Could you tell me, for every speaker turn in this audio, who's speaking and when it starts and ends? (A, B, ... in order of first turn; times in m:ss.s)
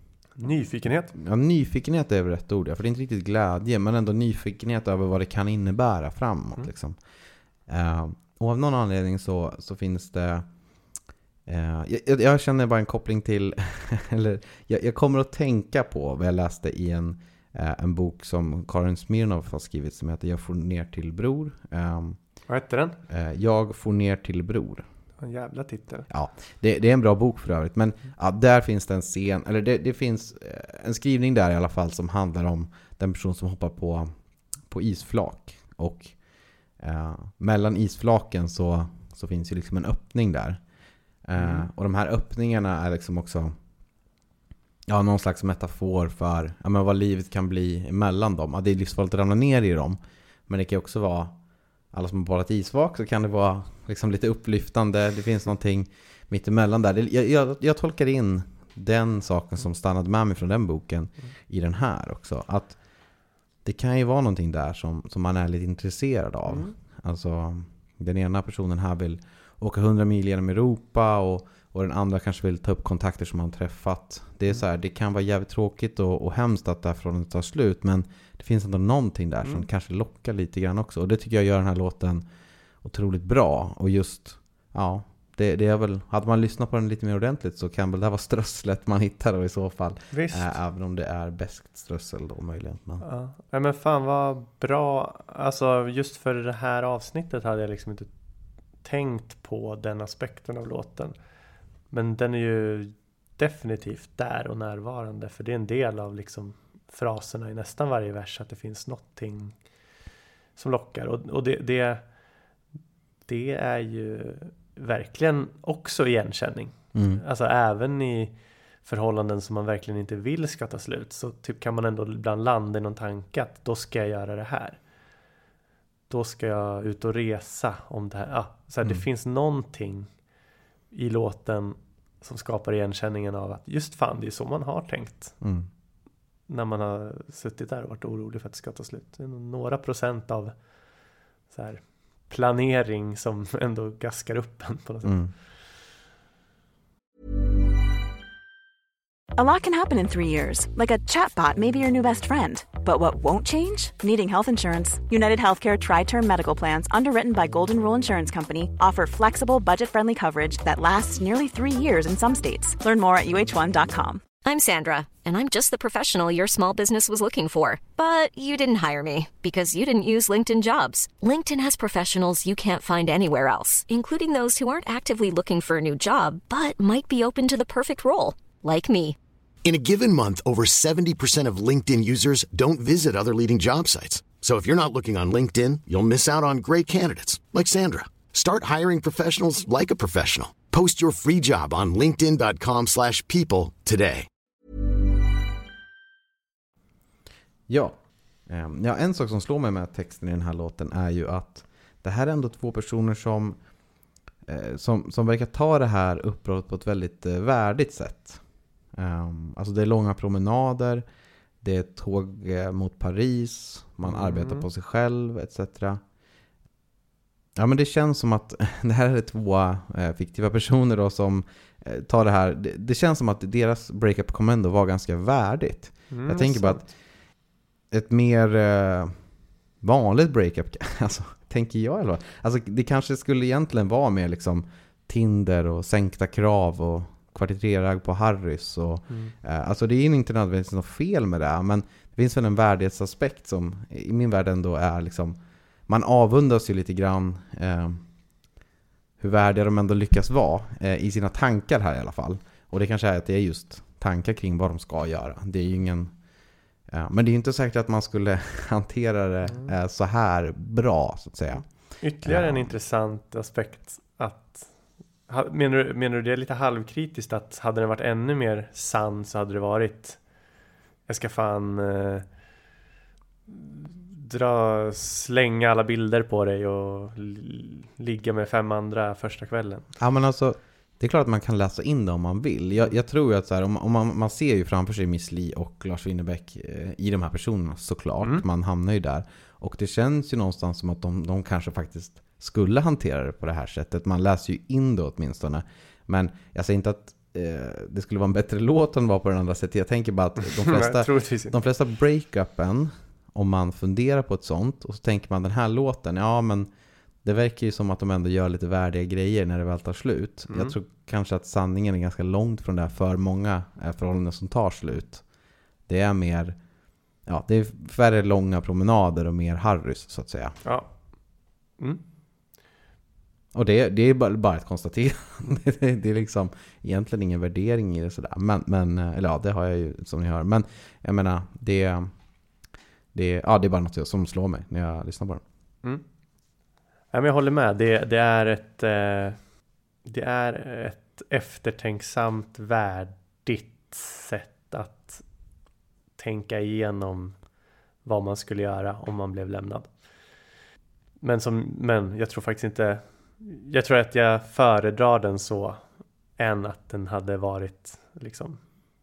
0:00.4-0:01.1 A
0:00.9-0:07.0 B
0:07.6-0:22.4 B
0:22.5-0:23.0 A
0:23.1-0:24.9 B
0:25.2-0:26.1 A
0:26.1-0:36.2 B
0:36.8-0:40.6 B
0:41.2-0:43.6 B
0:41.4-0:41.7 A
0:44.9-1:02.8 B
1:03.6-1:22.2 B
1:06.5-1:06.7 A
1:22.8-1:33.0 B
1:30.1-1:30.6 A
1:33.0-1:38.1 A
1:38.8-1:41.1 A
1:41.9-1:49.6 A
1:50.6-1:52.0 A
1:53.3-2:04.8 A
1:56.9-1:57.2 B
2:06.1-2:10.1 A
2:10.9-2:15.4 A
2:15.4-2:15.7 B
2:16.5-2:20.6 A
2:21.5-2:25.2 A
2:25.0-2:25.3 B
2:29.4-2:44.2 C
2:44.4-2:59.2 D
2:59.6-3:14.3 E
3:17.7-3:23.6 B
3:24.4-3:31.0 B
3:31.6-3:36.0 B
3:34.0-3:34.6 A
3:37.6-3:46.9 B
3:46.1-3:46.9 A
3:47.9-3:49.3 B
3:49.8-4:08.4 B
3:59.1-3:59.3 A
4:09.2-4:16.2 B
4:16.9-4:22.8 B
4:19.5-4:19.7 A
4:21.6-4:30.2 A
4:31.1-4:32.3 A
4:33.5-4:39.9 A
4:40.0-5:06.7 B
5:00.4-5:01.6 A
5:07.2-5:15.3 B
5:10.5-5:10.7 A
5:15.9-5:16.6 B
5:17.2-5:20.6 B
5:20.6-5:21.0 A
5:23.5-5:32.1 B
5:33.1-5:35.4 B
5:37.1-5:39.4 A
5:40.0-5:45.2 A
5:46.2-5:47.4 A
5:48.0-5:49.9 A
5:51.2-5:58.6 A